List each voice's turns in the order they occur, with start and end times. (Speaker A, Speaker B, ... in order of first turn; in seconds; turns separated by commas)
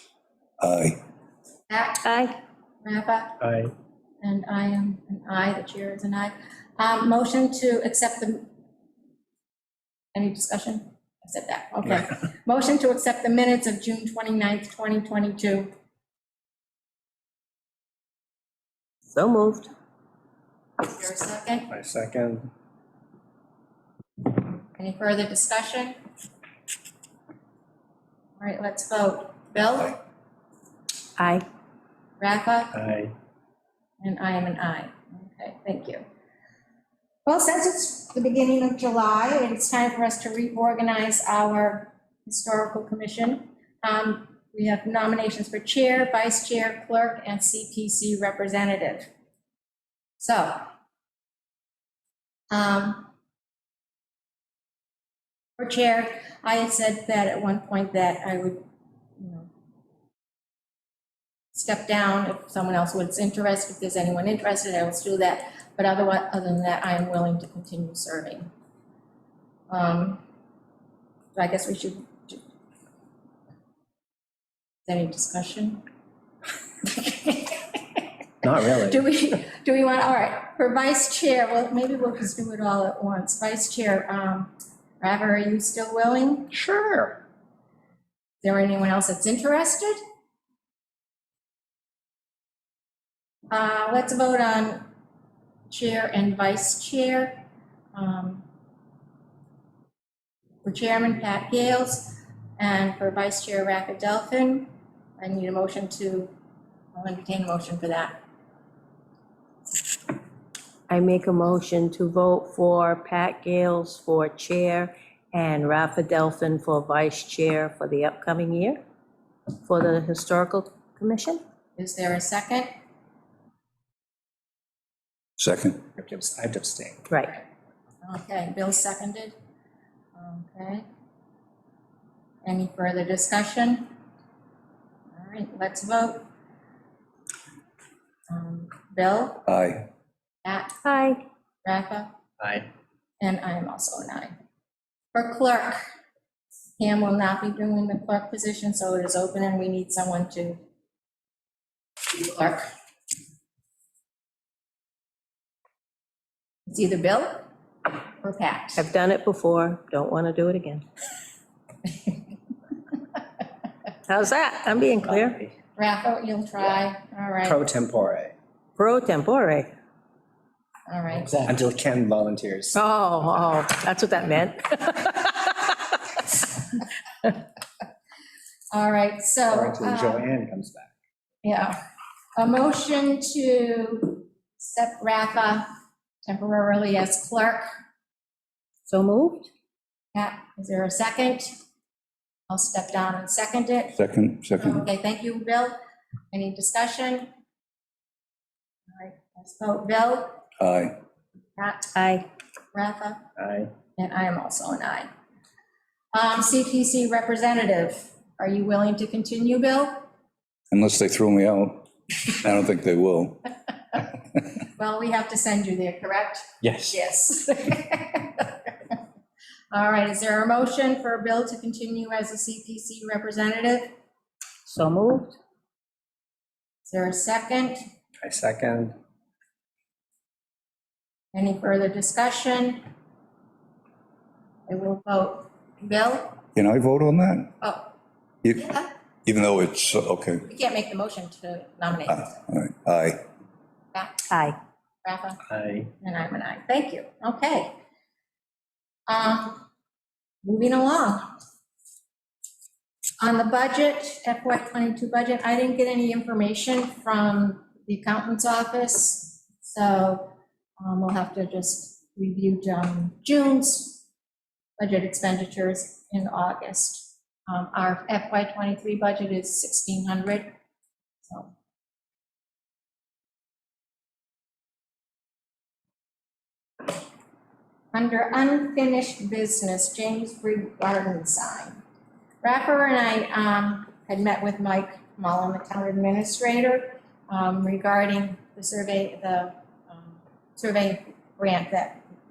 Speaker A: 0.6-1.0, Speaker B: 1.7-2.0, Speaker C: 2.0-2.3, Speaker B: 2.8-3.4, Speaker D: 3.4-3.7, Speaker B: 4.2-8.5, Speaker B: 10.1-15.7, Speaker C: 19.1-19.7, Speaker B: 20.8-21.7, Speaker D: 21.7-22.5, Speaker B: 24.8-26.0, Speaker B: 28.4-30.0, Speaker C: 31.2-31.4, Speaker B: 32.2-32.7, Speaker D: 32.7-33.1, Speaker B: 34.0-36.0, Speaker B: 37.3-49.1, Speaker B: 50.2-50.7, Speaker B: 52.5-53.1, Speaker B: 55.6-58.6, Speaker B: 59.2-59.5, Speaker B: 61.5-68.5, Speaker B: 69.7-70.2, Speaker B: 71.3-72.4, Speaker B: 74.9-75.8, Speaker B: 76.9-78.0, Speaker D: 78.4-79.0, Speaker B: 78.8-86.5, Speaker D: 86.5-87.2, Speaker B: 88.4-90.0, Speaker B: 93.5-94.9, Speaker B: 95.7-97.4, Speaker B: 97.9-98.4, Speaker B: 100.6-106.3, Speaker B: 106.9-108.2, Speaker C: 110.9-118.8, Speaker C: 119.6-121.4, Speaker B: 121.8-122.7, Speaker A: 125.4-125.8, Speaker D: 126.0-127.0, Speaker B: 128.0-129.3, Speaker B: 130.2-130.8, Speaker B: 132.4-133.9, Speaker B: 135.1-136.2, Speaker B: 138.3-139.4, Speaker A: 139.5-139.9, Speaker B: 140.4-140.7, Speaker C: 140.8-141.2, Speaker B: 141.7-142.1, Speaker D: 142.4-142.7, Speaker B: 143.2-144.3, Speaker B: 145.1-145.8, Speaker B: 146.8-150.6, Speaker B: 152.1-152.7, Speaker B: 156.7-157.5, Speaker B: 158.2-158.8, Speaker C: 158.8-160.8, Speaker C: 164.1-165.4, Speaker D: 165.1-165.5, Speaker B: 165.8-167.7, Speaker D: 167.4-168.3, Speaker C: 168.8-169.7, Speaker B: 170.9-171.4, Speaker D: 171.2-172.8, Speaker C: 172.8-175.7, Speaker B: 178.7-180.2, Speaker D: 179.5-180.9, Speaker B: 181.4-181.8, Speaker B: 182.3-185.7, Speaker B: 186.2-187.7, Speaker C: 188.9-189.5, Speaker B: 190.1-191.5, Speaker B: 192.5-194.0, Speaker A: 193.9-194.8, Speaker B: 194.6-195.8, Speaker B: 196.3-197.3, Speaker B: 198.9-200.4, Speaker A: 200.6-200.9, Speaker B: 201.6-201.9, Speaker C: 201.9-202.2, Speaker B: 202.7-203.2, Speaker D: 203.4-203.7, Speaker B: 204.0-205.1, Speaker B: 206.1-210.0, Speaker A: 210.7-213.4, Speaker B: 214.8-218.5, Speaker D: 216.6-216.9, Speaker B: 219.7-223.9, Speaker C: 224.7-225.3, Speaker B: 226.8-227.8, Speaker D: 228.2-228.9, Speaker B: 231.3-232.8, Speaker B: 234.7-236.4, Speaker A: 236.5-237.5, Speaker B: 237.6-237.9, Speaker A: 238.4-238.7, Speaker A: 239.2-240.5, Speaker B: 240.5-242.5, Speaker A: 242.1-243.2, Speaker B: 243.9-244.3, Speaker C: 244.3-244.6, Speaker B: 245.0-245.4, Speaker D: 245.5-245.9, Speaker B: 246.0-247.7, Speaker B: 249.1-249.6, Speaker B: 250.4-251.3, Speaker B: 253.2-264.0, Speaker B: 264.8-270.5, Speaker B: 277.9-281.8, Speaker B: 282.4-292.0